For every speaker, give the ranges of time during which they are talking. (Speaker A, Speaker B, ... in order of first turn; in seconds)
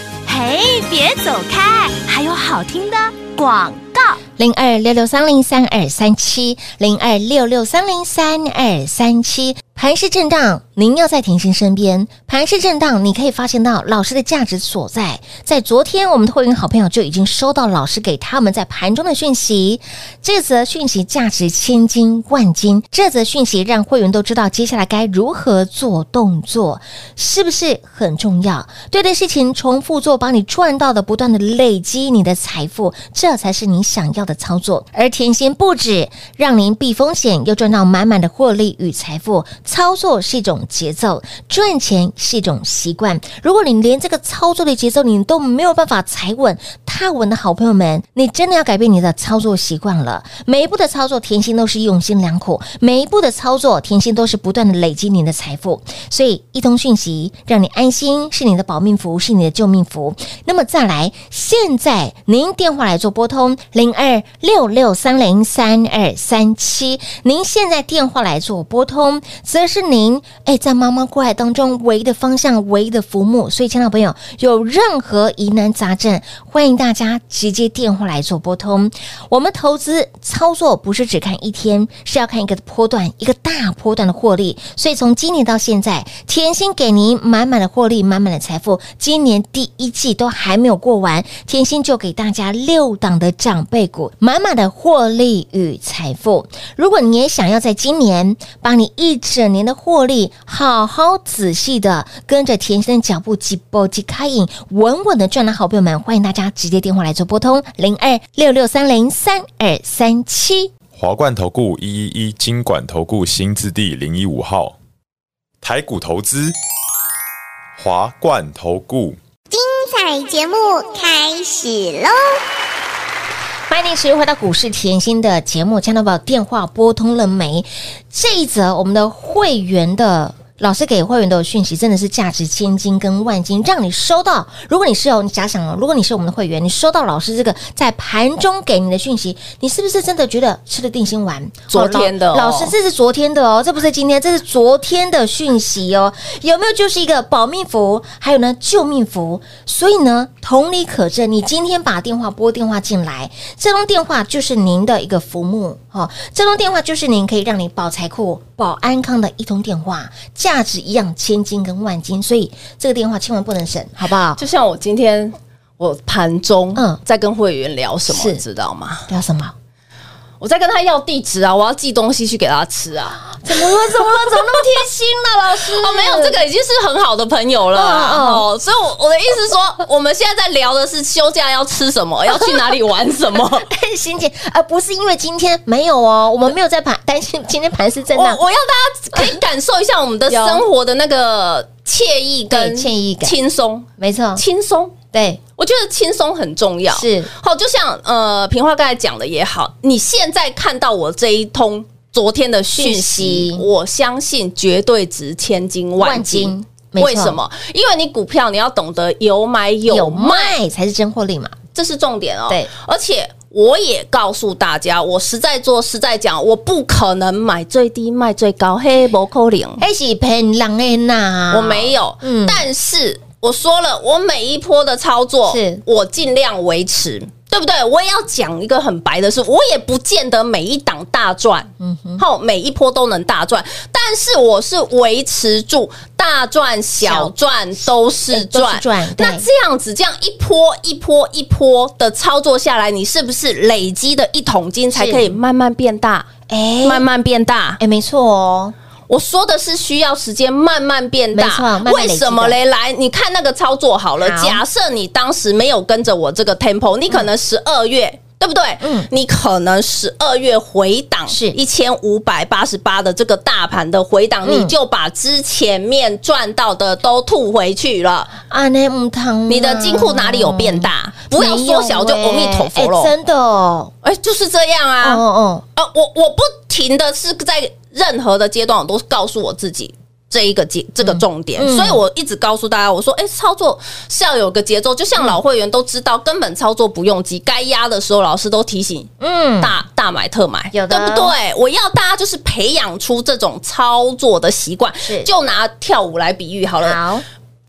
Speaker A: 0.2-4.2
Speaker B: 4.4-110.7, 123.7-164.4, 168.1-168.4, 169.1-169.5, 173.4-176.4, 177.7-178.4, 182.3-182.7, 183.6-188.4, 190.3-190.6, 192.5-193.3, 194.0-194.4, 195.1-195.4, 196.9-197.3, 202.7-203.7, 206.0-207.4, 209.9-211.6, 219.8-222.7, 225.5-225.8, 231.8-232.2, 237.0-237.3, 238.3-239.4, 244.9-245.3, 246.5-247.0, 247.8-248.7, 251.3-252.6, 254.2-254.6, 258.8-259.1, 261.3-261.6, 264.4-264.7, 268.5-273.9, 275.0-275.6, 281.0-282.0, 289.2-289.7, 290.7-291.3, 295.0-295.3, 296.8-297.2
Speaker C: 110.9-114.8, 115.6-116.5, 117.8-119.2
Speaker D: 119.5-122.4
Speaker E: 141.7-142.7, 164.3-169.1, 170.4-174.8, 175.5-183.7, 188.1-194.9, 195.6-210.6, 211.7-219.8, 221.5-246.3, 246.8-247.8, 249.1-268.3, 269.5-273.1, 274.0-275.2, 275.8-297.0